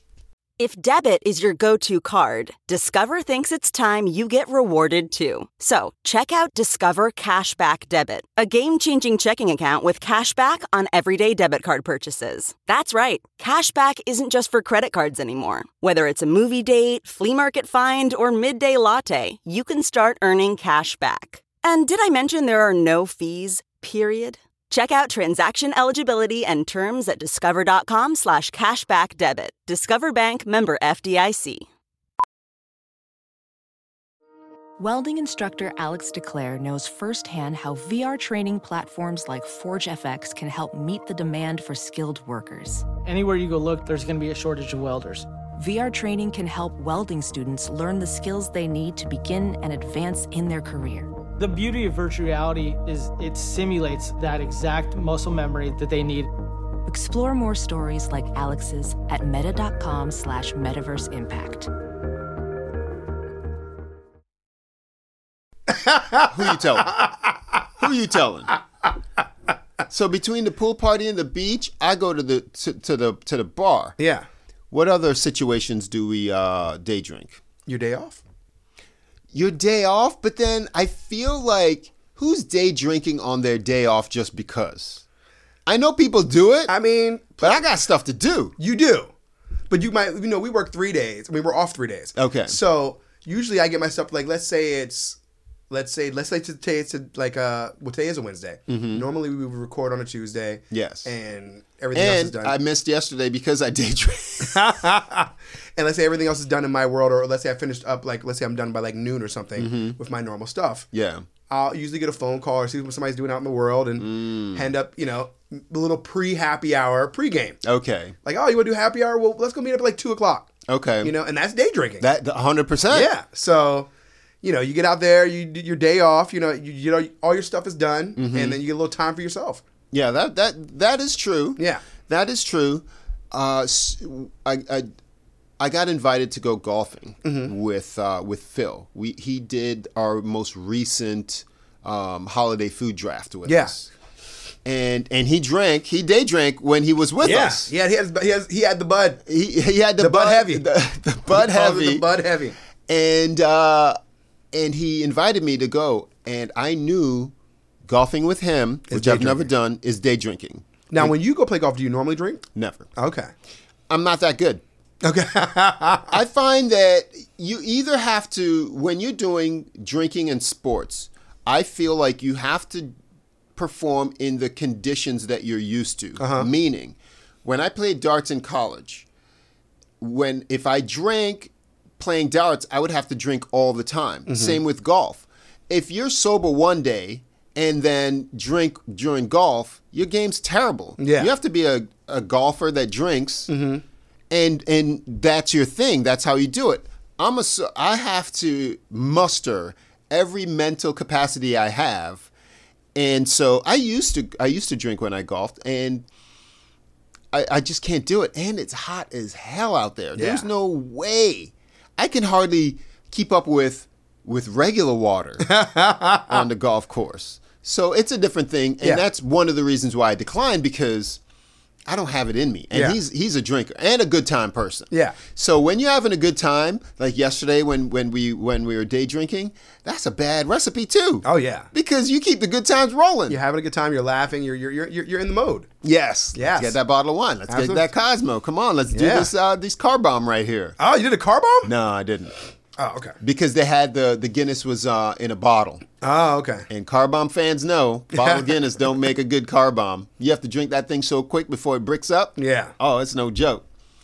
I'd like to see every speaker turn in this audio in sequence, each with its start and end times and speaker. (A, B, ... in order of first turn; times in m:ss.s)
0:00.6-0:31.6 A
0:34.8-0:42.9 B
0:43.0-0:45.3 C
0:45.6-0:51.1 B
0:51.4-0:56.3 C
0:56.9-1:01.7 B
1:05.7-1:06.3 D
1:06.3-1:06.9 E
1:06.8-1:07.1 D
1:07.8-1:08.5 E
1:09.9-1:14.0 E
1:14.0-1:14.2 D
1:14.7-1:17.4 E
1:17.6-1:18.2 D
1:19.3-1:25.0 E
1:25.6-1:26.7 E
1:26.7-1:27.6 D
1:27.4-1:28.6 E
1:28.6-1:29.1 D
1:29.7-1:35.2 D
1:32.2-1:32.6 E
1:35.7-1:42.6 D
1:38.7-1:39.0 E
1:40.7-1:41.1 E
1:41.9-1:44.7 E
1:44.4-1:50.9 D
1:49.6-1:50.0 E
1:50.9-1:51.2 E
1:51.5-1:57.6 D
1:54.0-1:54.7 E
1:57.6-1:58.2 E
1:58.2-2:00.5 D
2:00.7-2:01.1 E
2:01.0-2:02.0 D
2:02.0-2:03.1 E
2:02.9-2:03.9 D
2:04.4-2:09.6 D
2:08.2-2:08.6 E
2:09.9-2:14.9 E
2:11.6-2:11.8 D
2:15.6-2:23.9 E
2:17.2-2:17.5 D
2:23.4-2:23.7 D
2:24.6-2:27.7 E
2:27.2-2:29.2 D
2:29.2-2:32.0 E
2:30.0-2:30.6 D
2:31.3-2:32.6 D
2:32.9-2:34.0 E
2:34.5-2:37.3 E
2:37.8-2:41.1 E
2:38.9-2:39.5 D
2:40.9-2:42.4 D
2:42.5-2:42.9 E
2:43.0-2:43.3 D
2:43.9-2:44.6 E
2:45.0-2:46.2 D
2:46.1-2:52.9 E
2:53.6-2:59.1 E
2:56.2-2:56.5 D
3:00.0-3:13.5 E
3:04.3-3:04.6 D
3:11.0-3:11.3 D
3:13.5-3:13.8 D
3:14.3-3:22.3 E
3:22.9-3:26.0 E
3:27.3-3:35.5 E
3:30.2-3:30.5 D
3:35.4-3:36.4 D
3:36.3-3:41.2 E
3:41.9-3:53.4 E
3:42.7-3:43.0 D
3:44.9-3:45.2 D
3:51.2-3:51.7 D
3:53.3-3:55.7 D
3:55.8-4:00.8 E
3:56.3-3:56.8 D
3:57.5-3:57.8 D
3:58.9-3:59.3 D
4:00.8-4:01.7 D
4:01.6-4:02.3 E
4:02.8-4:03.2 D
4:03.2-4:05.8 E
4:06.0-4:06.7 D
4:06.7-4:13.6 E
4:08.1-4:08.5 D
4:12.4-4:12.7 D